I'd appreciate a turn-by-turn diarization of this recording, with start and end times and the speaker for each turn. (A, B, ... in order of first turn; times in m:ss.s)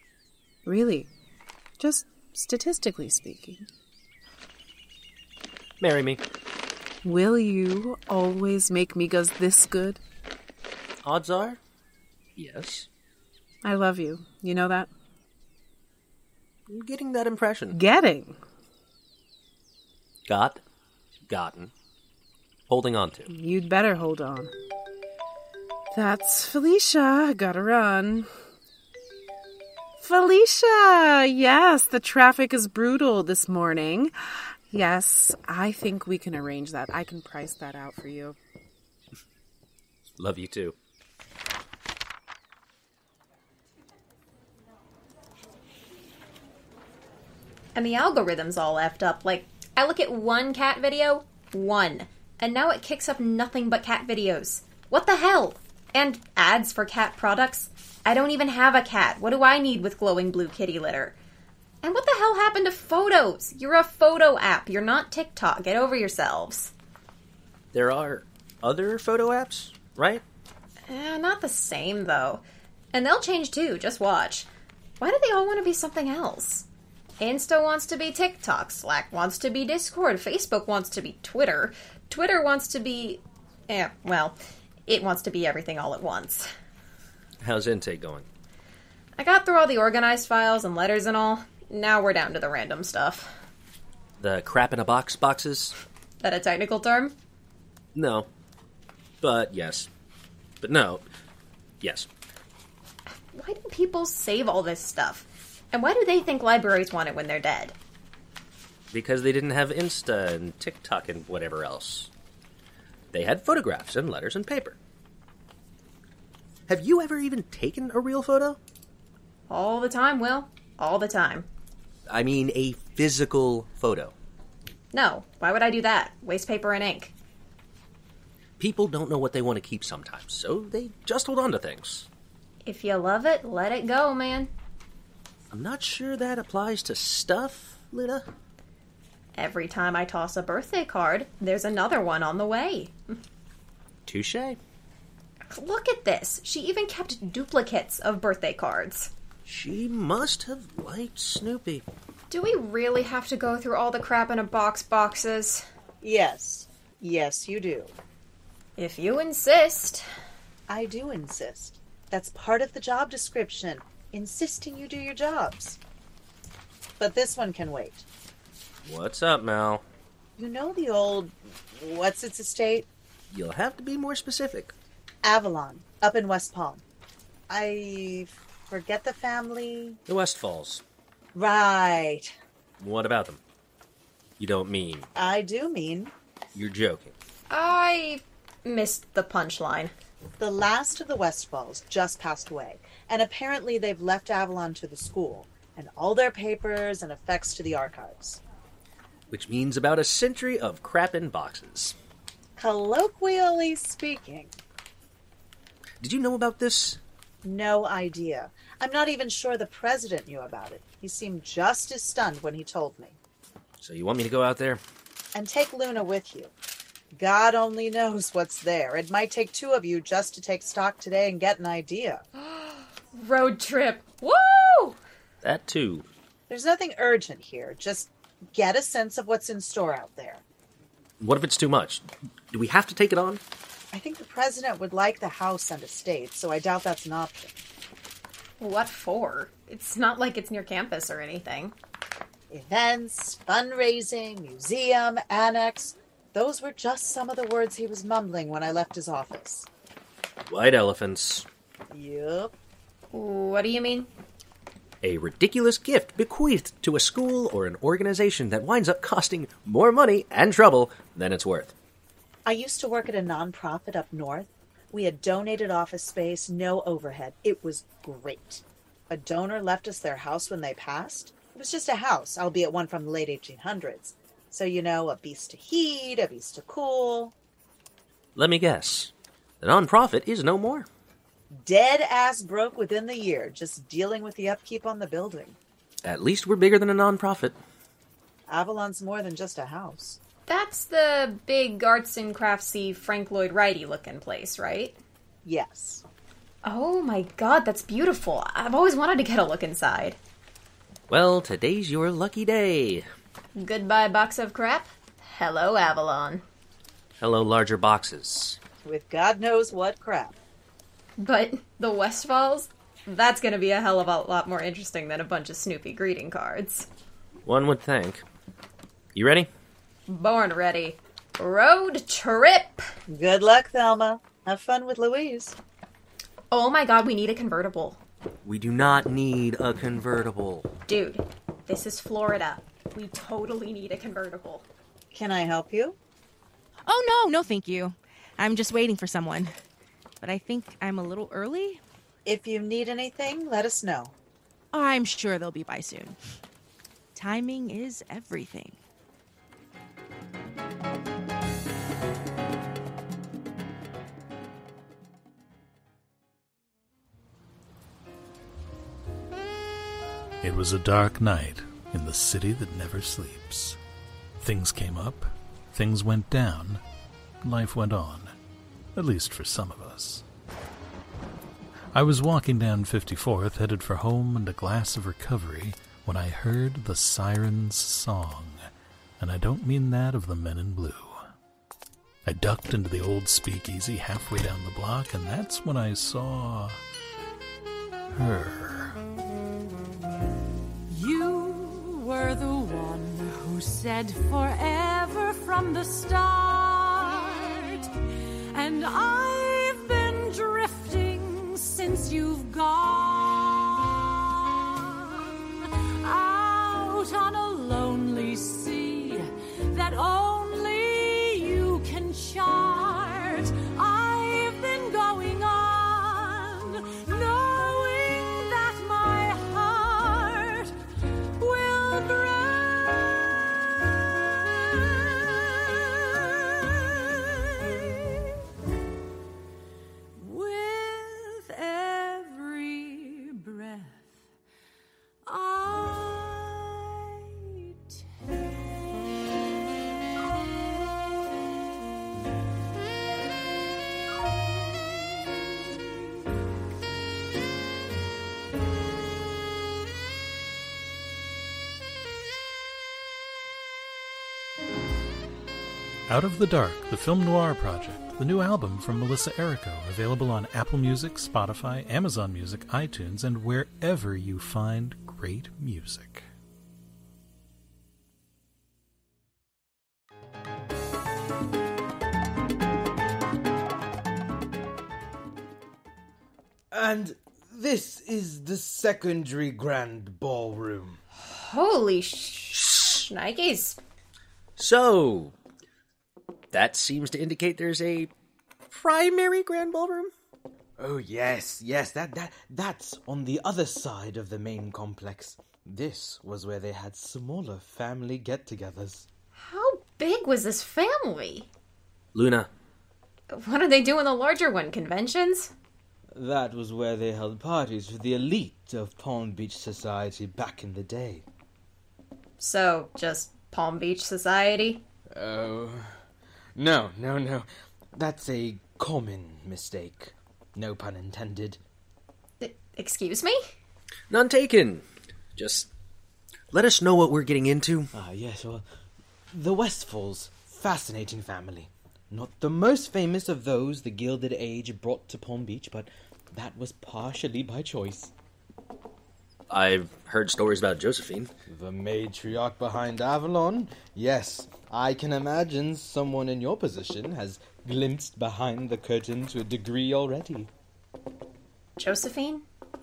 0:00.6-0:01.1 A
0:01.8-0:03.7 A
0:05.8-0:06.2 B
0:07.0-0:10.0 A
0:11.0-0:11.6 B
0:12.4-0:12.9 B
0:13.6-0:14.9 A
0:16.7-0:17.8 B
0:17.7-0:18.4 A
0:20.3-0:20.6 B
0:21.3-0:21.7 B
0:22.7-0:23.3 B
0:23.3-0:24.5 A
0:25.9-0:28.3 A
0:30.0-0:38.4 A
0:40.2-0:40.7 B
0:47.7-1:01.1 C
1:01.8-1:06.7 C
1:07.7-1:10.2 B
1:10.9-1:14.5 C
1:15.0-1:16.6 C
1:17.2-1:26.5 C
1:27.4-1:28.3 B
1:29.2-1:33.3 C
1:34.2-1:35.8 B
1:36.2-1:37.2 C
1:37.9-1:38.3 B
1:39.2-1:39.9 B
1:40.6-1:41.0 B
1:41.8-1:42.1 B
1:43.3-1:47.7 C
1:48.9-1:52.1 B
1:53.1-1:54.8 B
1:56.7-1:58.6 B
1:59.5-2:01.5 C
2:02.1-2:04.1 B
2:04.9-2:07.1 C
2:08.6-2:12.1 B
2:12.6-2:14.5 C
2:15.5-2:18.2 B
2:19.3-2:23.2 C
2:24.1-2:24.6 B
2:25.5-2:29.1 C
2:29.4-2:31.8 B
2:32.3-2:35.6 C
2:36.0-2:37.9 D
2:38.8-2:40.0 C
2:40.7-2:45.8 D
2:47.0-2:48.0 D
2:48.8-2:49.8 B
2:50.4-2:52.9 D
2:53.3-2:54.7 B
2:55.2-2:56.8 D
2:57.5-3:00.0 D
3:00.1-3:00.8 B
3:01.3-3:02.3 D
3:02.8-3:03.4 B
3:04.4-3:05.1 B
3:05.2-3:06.1 D
3:06.5-3:07.1 B
3:07.5-3:09.9 C
3:10.4-3:18.4 D
3:19.3-3:21.9 B
3:22.6-3:24.6 D
3:26.0-3:27.0 B
3:27.4-3:33.2 D
3:33.8-3:34.8 B
3:35.3-3:36.5 D
3:37.1-3:42.2 D
3:42.4-3:45.0 C
3:45.4-3:46.0 B
3:46.5-3:50.4 D
3:51.2-3:53.4 B
3:53.9-3:57.6 D
3:58.6-4:01.7 C
4:02.5-4:09.7 D
4:10.5-4:11.5 B
4:11.9-4:12.5 D
4:13.1-4:14.1 C
4:15.0-4:21.7 B
4:22.4-4:37.3 D
4:38.4-4:40.9 B
4:41.5-4:45.6 D
4:46.0-4:47.6 B
4:48.5-4:50.2 D
4:50.5-4:55.0 C
4:55.4-4:56.0 D
4:56.6-5:00.2 C
5:01.1-5:03.0 B
5:03.6-5:06.4 C
5:07.2-5:08.6 B
5:08.8-5:10.4 D
5:11.2-5:16.9 C
5:17.4-5:18.2 B
5:19.1-5:19.5 B
5:20.1-5:22.8 C
5:23.1-5:25.6 D
5:26.5-5:28.0 C
5:28.4-5:30.7 B
5:30.9-5:34.6 C
5:35.1-5:36.0 D
5:36.8-5:39.5 E
5:40.2-5:41.8 E
5:42.2-5:44.1 D
5:44.7-5:46.2 E
5:47.1-5:48.8 E
6:00.4-6:03.8 F
6:04.4-6:06.8 F
6:07.4-6:08.3 F
6:08.9-6:10.2 F
6:11.9-6:18.6 F
6:19.2-6:21.2 F
6:22.2-6:26.8 F
6:28.1-6:29.0 F
6:30.9-6:37.9 G
6:38.5-7:00.7 G
7:01.4-7:03.4 G
7:04.1-7:07.2 G
7:10.2-7:14.1 G
7:15.2-7:17.6 G
7:24.3-7:25.4 G
7:36.1-7:46.3 F
7:56.7-8:01.0 H
8:01.2-8:03.8 C
8:04.6-8:05.3 B
8:06.5-8:08.1 B
8:08.7-8:10.1 B
8:10.8-8:19.1 H
8:19.4-8:21.5 C
8:22.1-8:22.5 B
8:23.3-8:25.5 C
8:26.1-8:31.2 H
8:32.4-8:34.8 C
8:35.1-8:35.9 H
8:36.6-8:41.6 H
8:42.4-8:43.4 C
8:44.1-8:44.8 B
8:45.4-8:45.7 B
8:46.5-8:47.9 B
8:47.9-8:48.6 H
8:49.3-8:58.1 H
8:59.5-9:01.3 B
9:01.5-9:10.5 H
9:11.8-9:12.4 C